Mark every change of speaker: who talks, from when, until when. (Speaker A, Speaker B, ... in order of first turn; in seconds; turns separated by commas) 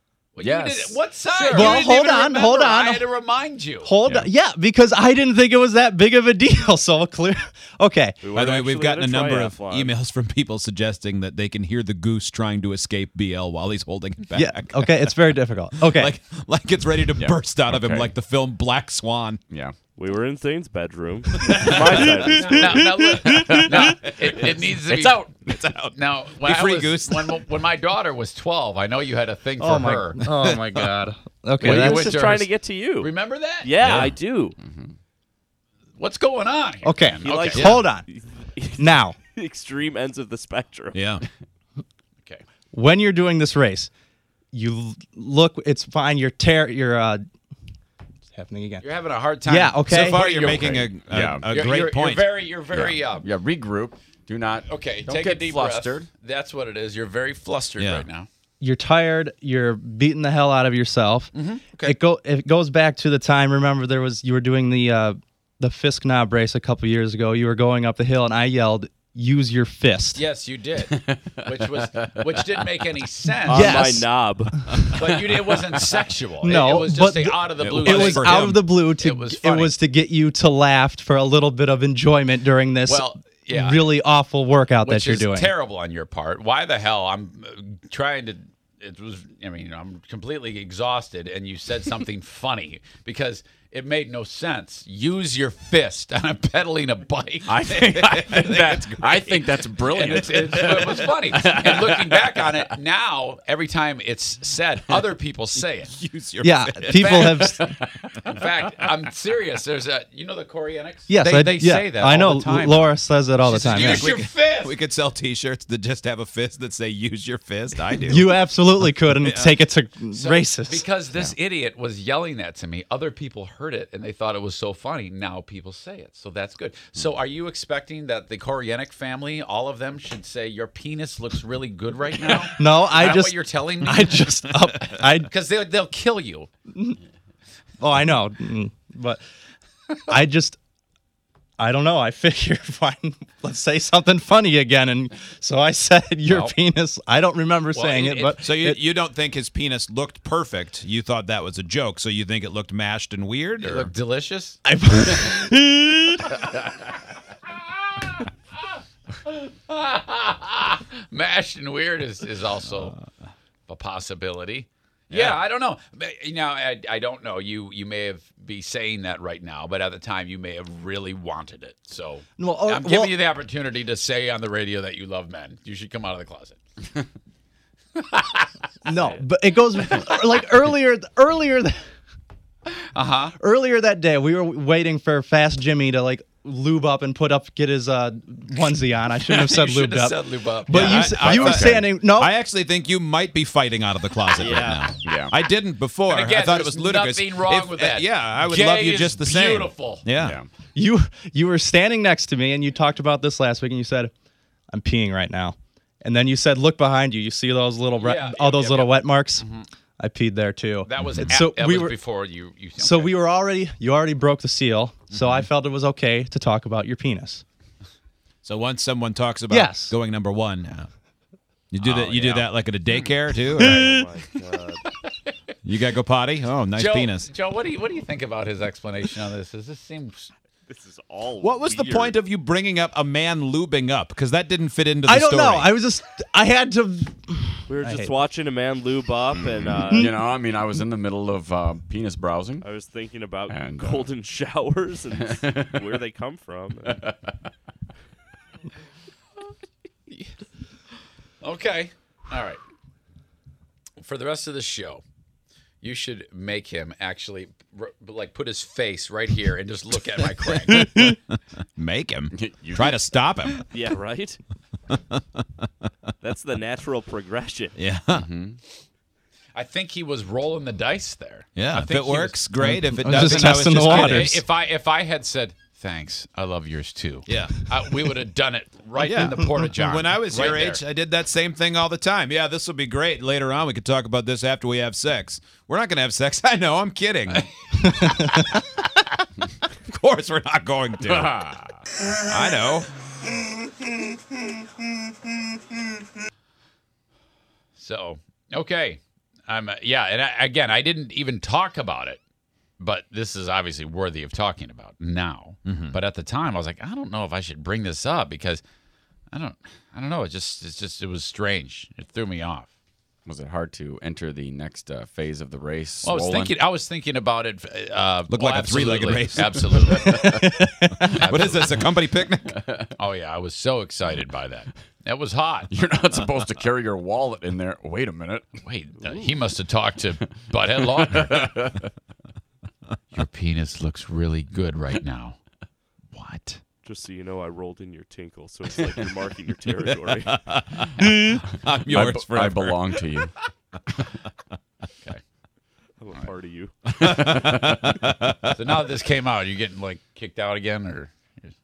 Speaker A: 0.3-3.9, Speaker B: 0.4-1.0, Speaker C: 1.4-3.0, Speaker C: 3.8-8.2, Speaker B: 4.0-4.3, Speaker D: 8.2-9.9, Speaker E: 8.3-19.4, Speaker C: 14.3-16.1, Speaker B: 17.1-18.1, Speaker B: 19.5-19.8, Speaker D: 20.0-22.8, Speaker E: 21.4-21.9, Speaker A: 21.6-25.3, Speaker C: 22.1-23.8, Speaker B: 23.3-25.5, Speaker E: 25.5-27.4, Speaker A: 25.9-30.3, Speaker C: 29.6-32.2, Speaker E: 30.5-30.9, Speaker D: 31.6-34.6, Speaker A: 31.7-32.5, Speaker A: 33.0-33.9, Speaker E: 33.8-34.1, Speaker B: 34.6-35.0, Speaker A: 36.0-37.8, Speaker C: 36.8-38.1, Speaker D: 37.2-41.0, Speaker C: 38.8-39.2, Speaker E: 40.9-41.2, Speaker C: 42.7-43.9, Speaker C: 44.5-47.2, Speaker C: 48.4-48.9, Speaker A: 48.8-50.8, Speaker C: 49.5-50.3, Speaker E: 49.9-52.3, Speaker B: 50.3-51.5, Speaker A: 51.5-53.3, Speaker B: 52.7-56.1, Speaker A: 54.6-58.3, Speaker E: 57.8-58.1, Speaker C: 58.6-70.2, Speaker A: 61.3-62.0, Speaker A: 70.2-73.8, Speaker B: 70.8-72.4, Speaker D: 73.5-74.5, Speaker C: 73.5-74.1, Speaker C: 74.6-75.0, Speaker A: 74.9-79.7, Speaker B: 75.1-75.8, Speaker C: 76.4-85.5, Speaker E: 77.6-78.6, Speaker A: 82.9-84.0, Speaker A: 84.8-97.6, Speaker B: 97.5-102.5, Speaker E: 97.7-100.8, Speaker A: 99.2-105.9, Speaker E: 105.9-107.7, Speaker C: 106.4-107.7, Speaker A: 107.0-107.3, Speaker B: 107.4-108.4, Speaker A: 108.3-114.8, Speaker C: 111.1-114.3, Speaker E: 113.7-118.4, Speaker C: 118.0-120.9, Speaker E: 119.2-119.6, Speaker A: 120.1-136.5, Speaker C: 132.6-135.3, Speaker C: 137.8-139.2, Speaker C: 140.1-140.6, Speaker C: 141.6-148.8, Speaker A: 146.3-146.6, Speaker A: 147.7-148.4, Speaker E: 148.4-153.9, Speaker A: 153.6-154.6, Speaker C: 154.7-156.4, Speaker A: 159.2-162.9, Speaker A: 163.7-176.6, Speaker E: 165.1-165.4, Speaker C: 172.4-173.2, Speaker A: 178.0-179.2, Speaker C: 178.8-181.8, Speaker A: 179.8-180.2, Speaker A: 182.9-183.4, Speaker C: 183.4-192.3, Speaker A: 189.3-191.2, Speaker E: 190.7-200.4, Speaker B: 191.2-191.9, Speaker B: 194.4-195.4, Speaker D: 194.5-194.8, Speaker A: 196.1-200.1, Speaker B: 200.2-200.5, Speaker C: 200.7-204.1, Speaker C: 204.7-209.5, Speaker A: 208.0-209.7, Speaker C: 210.0-212.0, Speaker A: 210.8-213.2, Speaker C: 212.8-217.4, Speaker E: 215.1-215.4, Speaker E: 218.4-220.9, Speaker C: 219.5-219.9, Speaker E: 221.7-223.9, Speaker A: 221.8-223.8, Speaker C: 223.6-223.9, Speaker D: 223.6-224.8, Speaker E: 225.6-227.3, Speaker A: 226.8-230.3, Speaker D: 230.7-232.2, Speaker E: 231.4-235.7, Speaker C: 235.1-238.1, Speaker D: 237.7-240.2, Speaker B: 239.3-242.7, Speaker D: 242.6-247.0, Speaker B: 243.5-244.1, Speaker B: 245.1-245.9, Speaker B: 246.9-247.3, Speaker A: 251.4-252.6, Speaker A: 254.0-255.0, Speaker A: 255.8-261.1, Speaker E: 260.8-261.1, Speaker E: 261.8-263.7, Speaker B: 262.3-263.1, Speaker D: 263.7-264.4, Speaker E: 264.9-265.4, Speaker D: 266.2-267.8, Speaker E: 267.8-268.3, Speaker B: 268.1-268.6, Speaker A: 269.6-272.4, Speaker E: 271.6-274.4, Speaker C: 272.6-274.4, Speaker A: 273.1-280.8, Speaker E: 277.3-277.6, Speaker E: 279.0-288.2, Speaker E: 289.9-291.6, Speaker B: 291.1-291.8, Speaker E: 292.2-292.9, Speaker A: 297.8-302.2, Speaker A: 302.8-308.6, Speaker E: 305.7-306.0, Speaker A: 309.3-312.7, Speaker B: 313.2-316.5, Speaker A: 316.0-320.5, Speaker E: 318.3-320.2, Speaker B: 319.9-320.6, Speaker C: 320.3-321.2, Speaker A: 321.2-321.7, Speaker E: 321.2-322.6, Speaker B: 321.2-321.8, Speaker B: 322.6-322.9, Speaker A: 322.9-325.7, Speaker B: 325.7-328.6, Speaker A: 328.6-331.7, Speaker D: 329.0-329.3, Speaker B: 330.8-331.9, Speaker A: 333.1-335.4, Speaker E: 336.1-336.6, Speaker D: 336.8-340.4, Speaker E: 340.1-343.1, Speaker B: 341.8-343.3, Speaker D: 346.0-346.7, Speaker B: 347.0-348.0, Speaker E: 347.0-348.6, Speaker A: 348.5-351.1